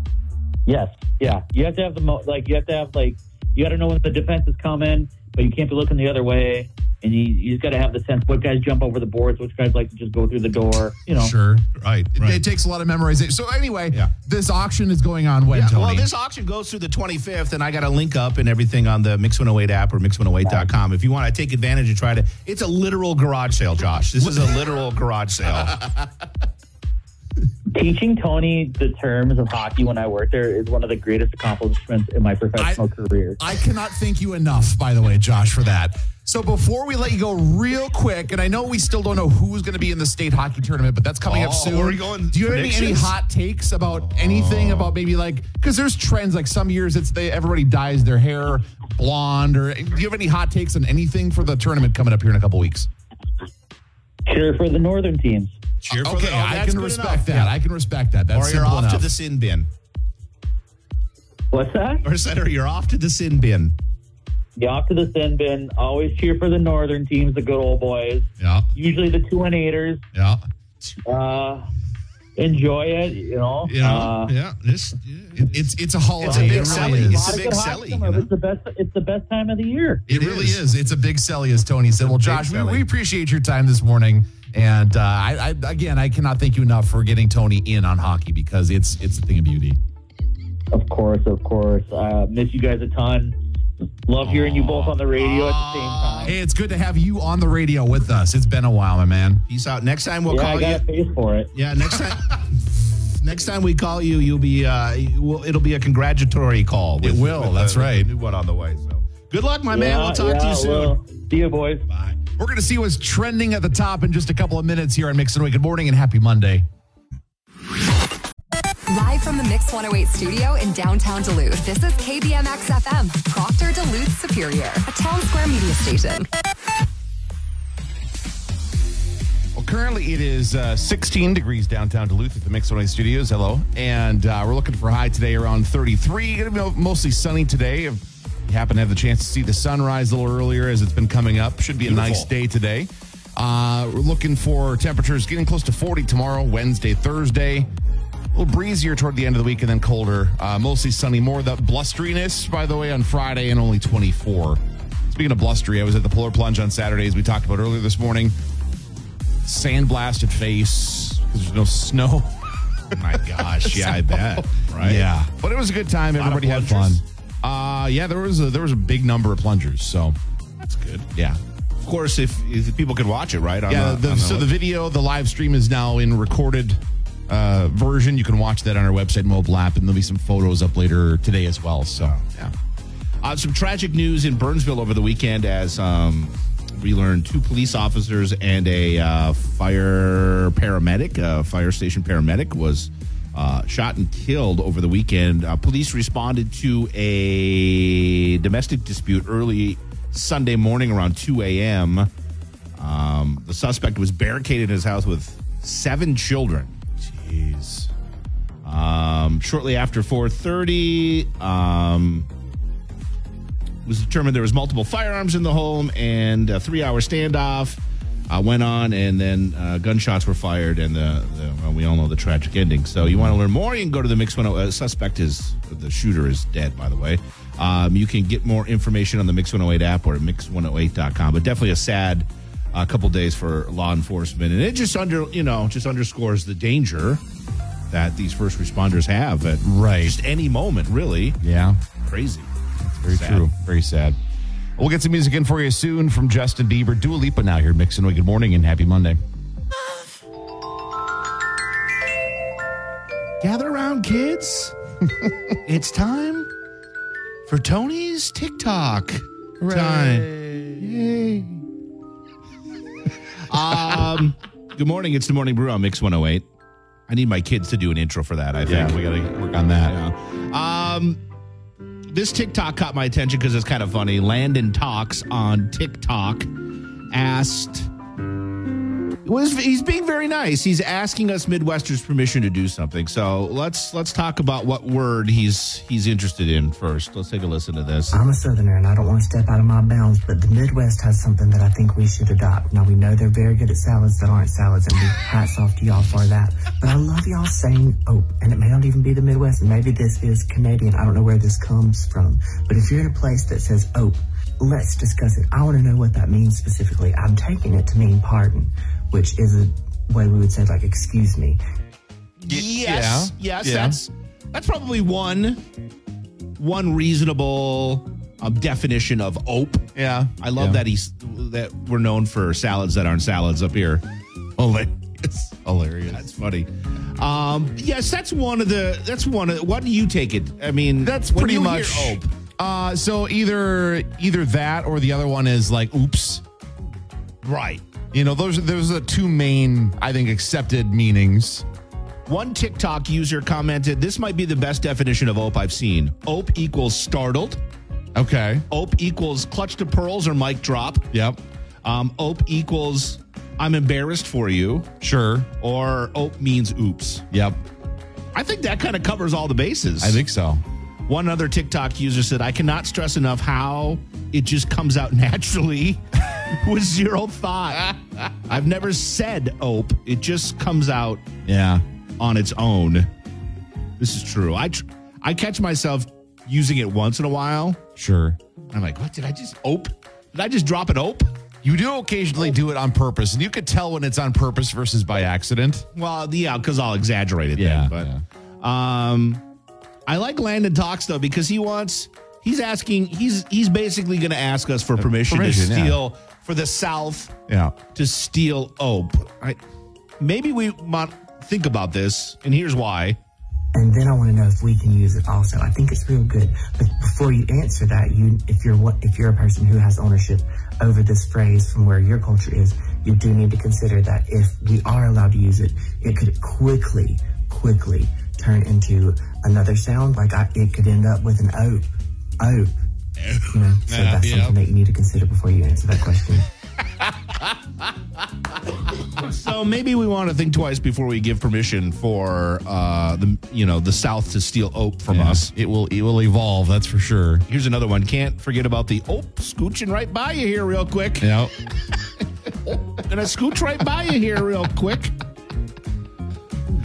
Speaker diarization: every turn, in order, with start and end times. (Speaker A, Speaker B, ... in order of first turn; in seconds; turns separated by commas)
Speaker A: 0.7-11.3, Speaker B: 11.1-16.1, Speaker C: 11.8-12.4, Speaker C: 15.5-25.9, Speaker B: 24.2-24.5, Speaker A: 27.7-33.4, Speaker B: 32.6-32.8, Speaker B: 33.4-52.9, Speaker C: 41.2-43.1, Speaker C: 44.0-44.9, Speaker A: 54.2-55.6, Speaker C: 55.8-57.5, Speaker B: 55.9-59.1, Speaker C: 58.3-59.7, Speaker A: 61.5-62.0, Speaker C: 62.0-63.7, Speaker A: 64.6-70.0, Speaker B: 68.4-68.7, Speaker B: 70.1-70.4, Speaker A: 71.0-71.7, Speaker A: 72.4-74.3, Speaker C: 73.7-78.3, Speaker B: 75.4-77.5, Speaker A: 76.2-80.0, Speaker C: 80.1-80.6, Speaker B: 80.1-89.8, Speaker C: 82.0-82.8, Speaker A: 90.7-93.4, Speaker A: 94.1-96.3, Speaker B: 94.2-95.1, Speaker B: 96.2-99.4, Speaker C: 99.5-100.8, Speaker A: 100.3-101.5, Speaker C: 101.5-102.6, Speaker C: 103.1-111.0, Speaker B: 107.0-108.1, Speaker A: 109.7-111.8, Speaker C: 111.9-112.2, Speaker B: 112.4-116.7, Speaker D: 118.9-126.3, Speaker B: 129.5-147.7, Speaker C: 141.8-142.3, Speaker B: 148.3-158.3, Speaker B: 159.4-162.3, Speaker B: 162.9-170.2, Speaker C: 162.9-165.1, Speaker C: 166.2-167.0, Speaker C: 170.6-171.1, Speaker B: 171.1-171.4, Speaker C: 171.8-174.5, Speaker B: 173.7-182.5, Speaker C: 182.0-182.5, Speaker C: 183.2-202.1, Speaker C: 202.8-207.9, Speaker C: 208.6-212.3, Speaker C: 213.8-237.2, Speaker B: 223.0-223.4, Speaker C: 237.9-241.4, Speaker B: 239.6-240.2, Speaker B: 241.4-241.8, Speaker C: 242.0-242.5, Speaker B: 242.8-244.2, Speaker C: 243.1-243.5, Speaker B: 244.8-249.2, Speaker C: 253.4-254.7, Speaker C: 255.6-256.5, Speaker C: 257.5-261.6, Speaker B: 259.6-260.8, Speaker C: 263.5-266.4, Speaker C: 267.1-269.0, Speaker B: 268.6-270.0, Speaker C: 269.8-271.2, Speaker C: 272.1-276.5, Speaker C: 277.1-277.9, Speaker C: 279.2-288.2, Speaker E: 288.1-311.6, Speaker C: 312.4-315.6, Speaker B: 312.4-314.0, Speaker C: 316.6-324.0, Speaker B: 319.9-320.8, Speaker B: 324.6-326.2, Speaker C: 326.1-332.3, Speaker B: 331.0-336.4, Speaker C: 337.4-337.8, Speaker B: 338.1-341.6, Speaker C: 342.3-347.6, Speaker B: 348.1-348.6, Speaker C: 348.7-351.1, Speaker B: 351.1-351.4, Speaker C: 351.8-354.9, Speaker B: 355.0-355.5, Speaker C: 355.6-357.2, Speaker B: 357.3-357.6, Speaker C: 358.3-360.2, Speaker B: 360.0-360.6, Speaker C: 361.1-371.2, Speaker B: 371.4-371.8, Speaker C: 372.2-373.1, Speaker C: 374.0-377.8, Speaker B: 378.0-378.4, Speaker C: 378.7-381.3, Speaker B: 381.6-385.9, Speaker C: 385.9-388.1, Speaker B: 387.6-388.2, Speaker C: 388.6-389.4, Speaker C: 390.1-397.3, Speaker B: 395.0-396.0, Speaker B: 397.5-397.8, Speaker C: 397.9-399.6, Speaker C: 400.2-403.2, Speaker E: 403.7-422.7, Speaker E: 423.4-426.5, Speaker B: 423.9-424.6, Speaker C: 429.1-435.5, Speaker B: 435.1-437.4, Speaker C: 437.5-441.3, Speaker B: 441.2-441.5, Speaker C: 442.8-445.1